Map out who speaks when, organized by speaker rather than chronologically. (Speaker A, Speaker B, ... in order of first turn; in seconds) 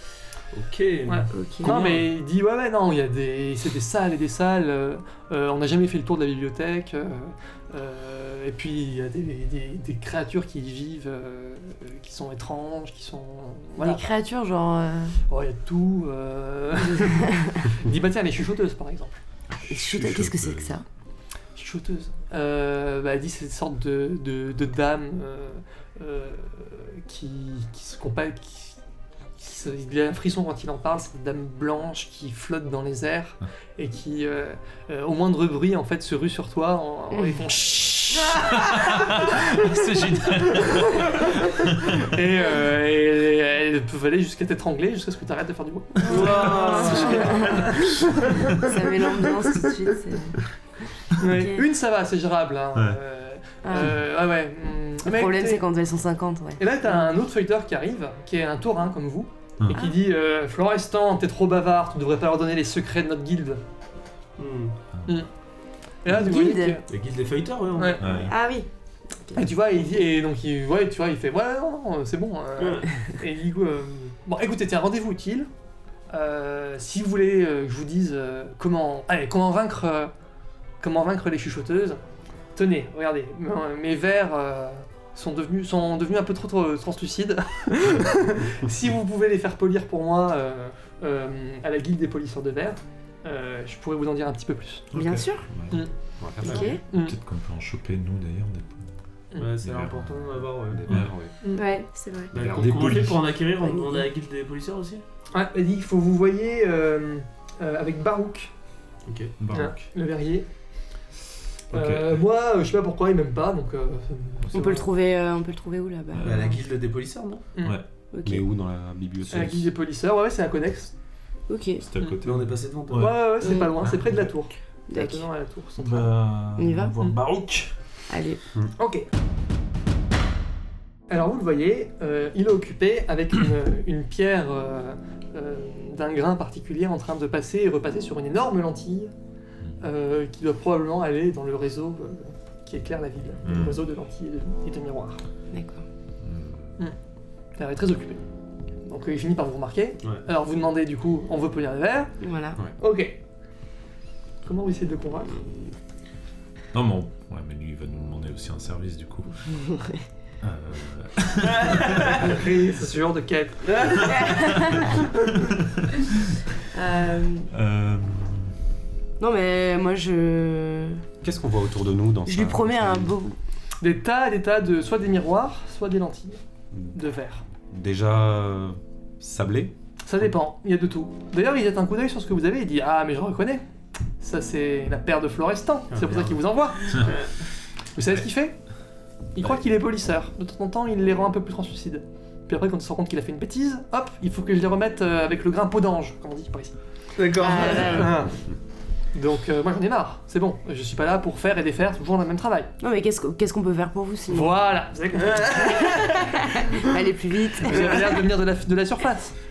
Speaker A: 0.5-1.8, 46.0-47.5, 64.4-64.8, 66.9-68.3, 72.6-72.8, 99.3-101.1, 102.3-105.0, 109.1-109.3, 116.2-117.5, 122.2-123.1, 163.8-164.1, 185.9-187.3, 197.2-198.1, 205.2-206.2
Speaker B: 1.1-14.1, 15.3-19.2, 21.5-28.8, 29.4-48.7, 51.1-55.6, 56.6-63.6, 66.0-66.8, 67.7-68.1, 69.3-75.5, 76.1-80.1, 80.8-82.0, 82.5-94.9, 95.7-97.2, 101.4-101.7, 105.3-108.5, 109.5-110.5, 111.7-114.9, 117.5-117.8, 119.3-120.9, 122.9-126.1, 128.8-129.1, 131.1-139.1, 139.8-145.2, 147.6-148.2, 148.8-152.2, 152.8-153.2, 154.4-155.4, 161.9-164.3, 173.8-176.4, 176.9-177.4, 180.0-183.6, 184.2-187.2, 187.9-188.6, 189.3-196.7, 197.6-198.4, 199.1-202.7, 204.3-206.0, 207.6-209.3
Speaker C: 1.3-1.9, 13.8-15.2, 17.1-17.6, 19.7-20.8, 46.1-50.5, 51.2-51.6, 53.6-54.0, 55.0-57.1, 59.7-60.0, 66.1-66.8, 68.0-68.7, 94.9-95.5, 96.4-96.8, 101.5-102.3, 103.6-104.0, 114.5-116.5, 118.1-118.4, 121.5-121.8, 123.4-123.9, 124.9-125.3, 126.5-127.0, 128.1-128.4, 145.5-145.8, 152.2-152.6, 159.4-160.0, 164.0-164.9, 166.7-167.5, 169.2-171.0, 172.2-173.4, 197.3-198.2, 202.8-204.6, 205.8-208.2
Speaker D: 1.6-2.0, 19.5-20.7, 38.3-42.0, 46.0-47.0, 64.9-65.2, 68.0-68.3, 94.9-95.7, 96.7-98.9, 99.6-101.1, 102.3-103.3, 109.4-109.8, 111.7-112.2, 116.1-116.5, 121.8-123.2, 123.8-124.3, 125.8-127.7, 143.4-143.8, 146.2-146.7, 156.7-159.4, 160.4-162.3, 164.1-164.7, 167.5-168.6
Speaker E: 96.2-96.7, 100.7-101.3, 118.2-119.7, 171.2-173.1, 177.7-179.7